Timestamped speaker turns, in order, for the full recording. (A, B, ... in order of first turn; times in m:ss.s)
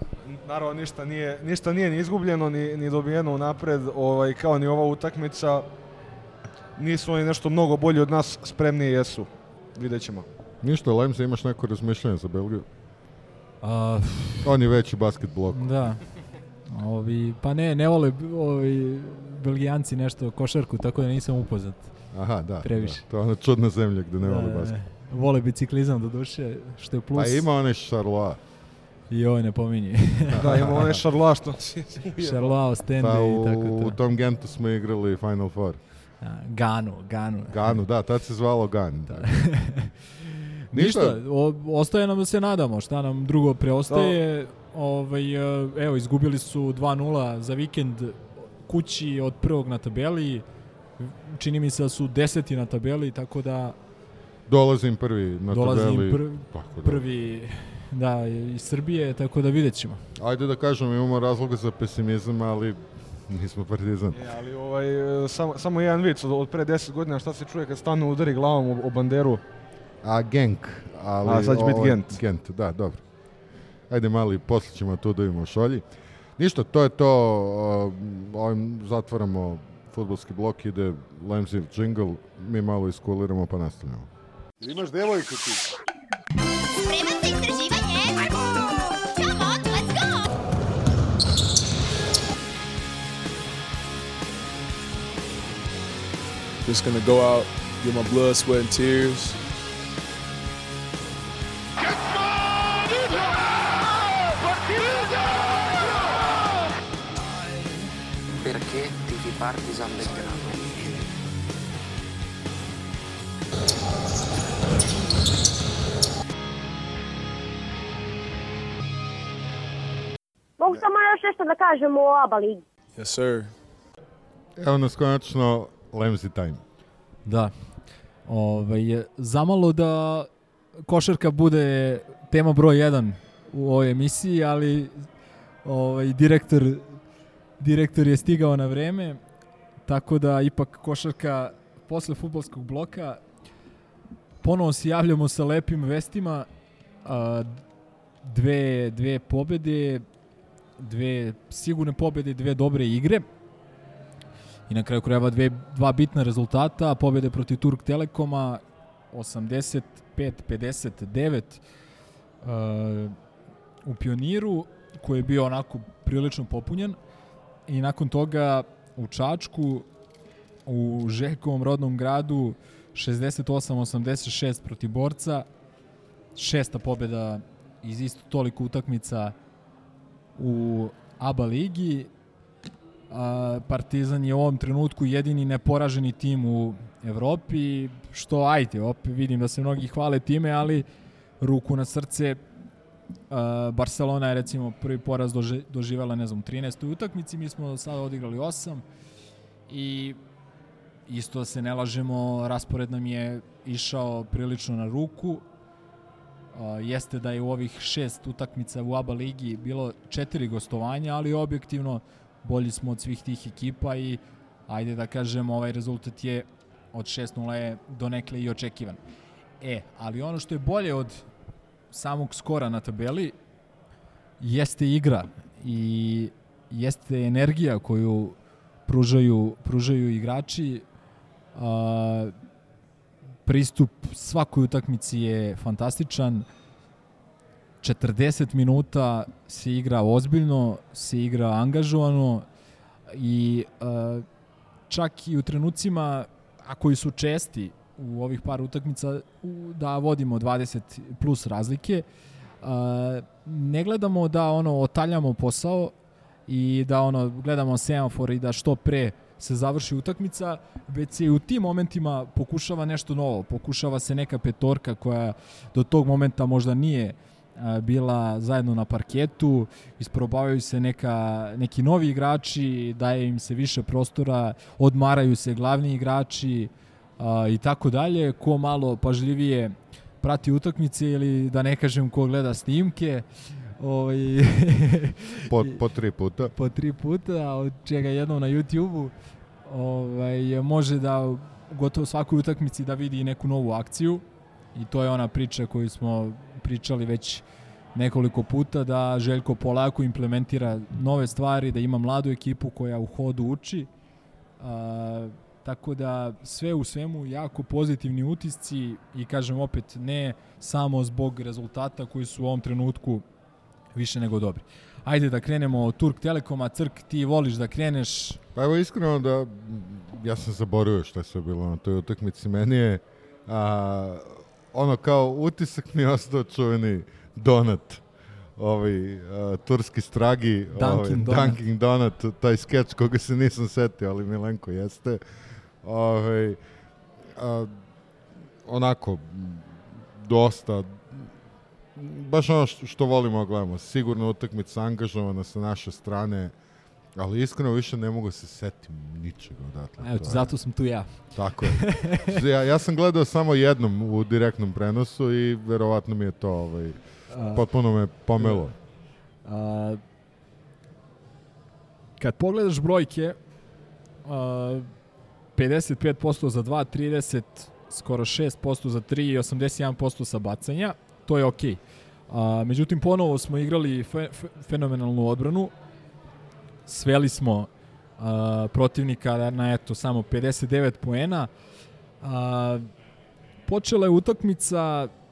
0:00.2-0:05.6 A
0:06.8-0:10.3 A
0:10.6-0:12.7 B
0:13.6-0:14.5 C
0:14.4-0:15.9 B
0:15.5-0:16.0 C
0:16.7-0:21.9 C
0:22.1-0:24.8 B
0:22.6-0:23.0 C
0:24.2-0:27.5 C
0:27.1-0:28.4 B
0:29.1-0:30.6 C
0:30.3-0:31.0 B
0:30.4-0:32.6 A
0:32.2-0:34.0 C
0:33.0-0:35.8 B
0:36.2-0:37.8 C
0:37.5-0:39.4 B
0:39.1-0:50.4 C
0:40.7-0:41.2 B
0:43.9-0:44.2 A
0:51.0-0:53.8 C
0:54.5-0:57.0 B
0:55.5-1:00.0 C
1:00.2-1:04.2 B
1:04.1-1:09.4 A
1:10.0-1:13.0 B
1:11.2-1:12.2 A
1:13.9-1:15.8 B
1:16.4-1:24.1 B
1:24.6-1:25.6 B
1:26.7-1:30.2 D
1:36.6-1:39.4 E
1:48.4-1:50.9 F
2:00.6-2:02.6 G
2:03.0-2:03.5 E
2:04.6-2:06.6 B
2:07.3-2:07.5 C
2:08.3-2:10.3 C
2:10.9-2:14.9 C
2:15.6-2:16.9 C
2:17.6-2:19.2 C
2:19.9-2:23.2 C
2:24.4-2:26.5 C
2:27.0-2:27.6 C
2:28.2-2:30.0 C
2:30.8-2:33.3 C
2:34.7-2:38.6 C
2:39.1-2:41.6 C
2:42.4-2:43.2 C
2:43.8-2:47.0 C
2:47.7-2:49.9 C
2:50.7-2:55.5 C
2:56.4-2:59.4 C
3:00.4-3:02.1 C
3:03.1-3:10.9 C
3:11.4-3:12.4 C
3:13.3-3:18.8 C
3:19.7-3:20.2 C
3:21.1-3:25.4 C
3:26.5-3:39.0 C
3:39.6-3:41.2 C
3:41.9-3:43.4 C
3:44.4-3:48.4 C
3:48.9-3:50.8 C
3:51.6-3:52.3 C
3:53.5-3:56.5 C
3:57.8-4:02.5 C
4:03.1-4:04.2 C
4:04.9-4:12.1 C
4:12.6-4:15.9 C
4:16.5-4:43.3 C
4:43.8-4:45.8 C
4:45.5-4:46.5 B
4:46.5-4:49.1 C
4:49.7-5:03.9 C
5:04.6-5:13.2 C
5:14.0-5:18.4 C
5:18.6-5:28.0 B
5:28.6-5:35.2 B
5:30.7-5:31.6 C
5:35.8-5:36.6 B
5:37.4-5:37.7 B
5:38.7-5:41.3 B
5:42.0-5:46.5 B
5:47.2-5:50.5 B
5:50.0-5:52.4 C
5:51.3-5:58.7 B
5:57.3-5:57.7 C
5:59.4-6:00.0 C
6:02.2-6:03.4 C
6:04.2-6:04.9 C
6:05.6-6:15.7 C
6:16.9-6:21.5 C
6:22.2-6:22.9 C
6:23.7-6:25.1 C